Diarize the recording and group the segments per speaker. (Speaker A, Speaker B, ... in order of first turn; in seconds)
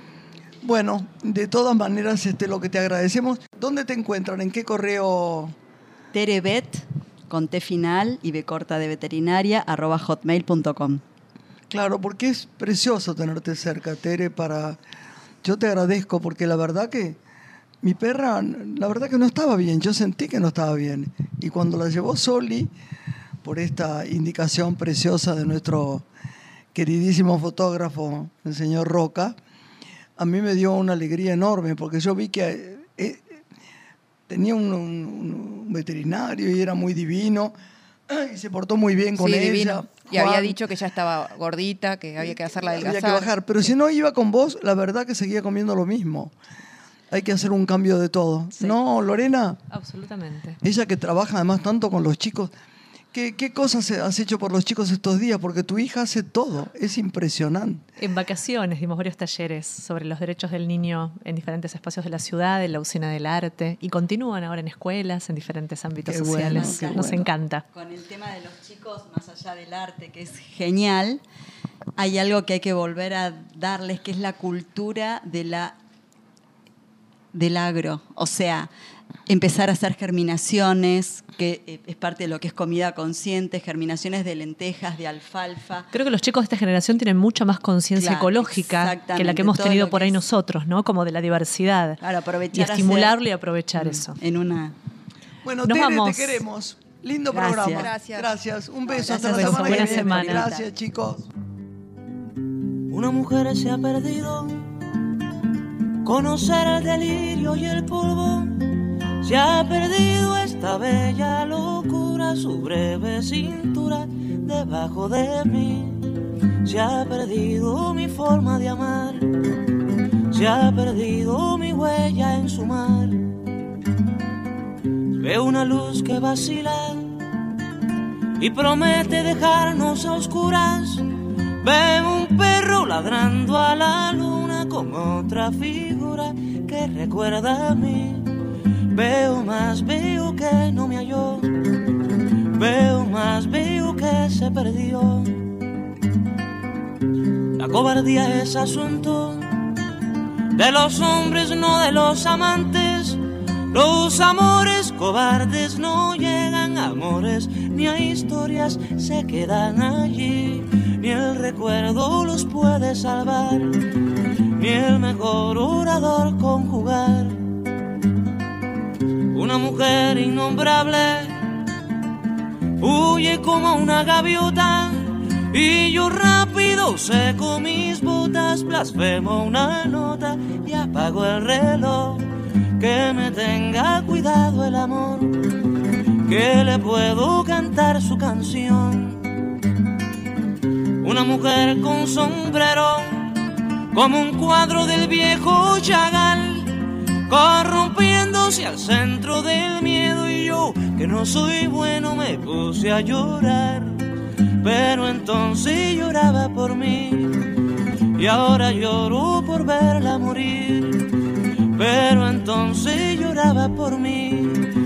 Speaker A: 0.6-5.5, 11.7-14.8, 15.4-17.2, 17.8-22.7, 23.4-26.1, 26.7-29.4, 30.2-33.4, 34.3-37.5, 38.1-40.6, 42.2-46.3, 47.1-49.6, 50.6-52.5, 53.1-57.8, 66.0-67.3, 95.4-101.3
Speaker B: 6.1-11.0, 66.3-67.0, 67.7-71.2, 72.0-75.8, 77.3-78.7, 79.3-85.9, 88.0-90.2, 92.0-93.2, 94.1-94.8, 97.3-97.9, 99.0-100.7
Speaker C: 39.2-43.7, 97.7-98.3
Speaker D: 49.7-50.6, 58.0-67.6, 85.9-92.0, 92.5-94.2, 95.7-96.4, 99.1-100.5
Speaker E: 102.9-104.7, 106.0-108.6, 109.2-116.0, 116.7-119.3, 120.3-123.2, 125.2-127.2, 128.4-131.1, 131.6-138.3, 138.9-141.5, 142.6-145.4, 147.6-149.5, 150.6-163.7, 164.6-167.4, 169.3-171.3, 172.8-182.3, 182.8-185.5, 186.3-189.2, 191.0-193.3, 193.9-196.8, 197.3-203.9, 204.6-207.3, 208.2-211.1, 211.8-214.6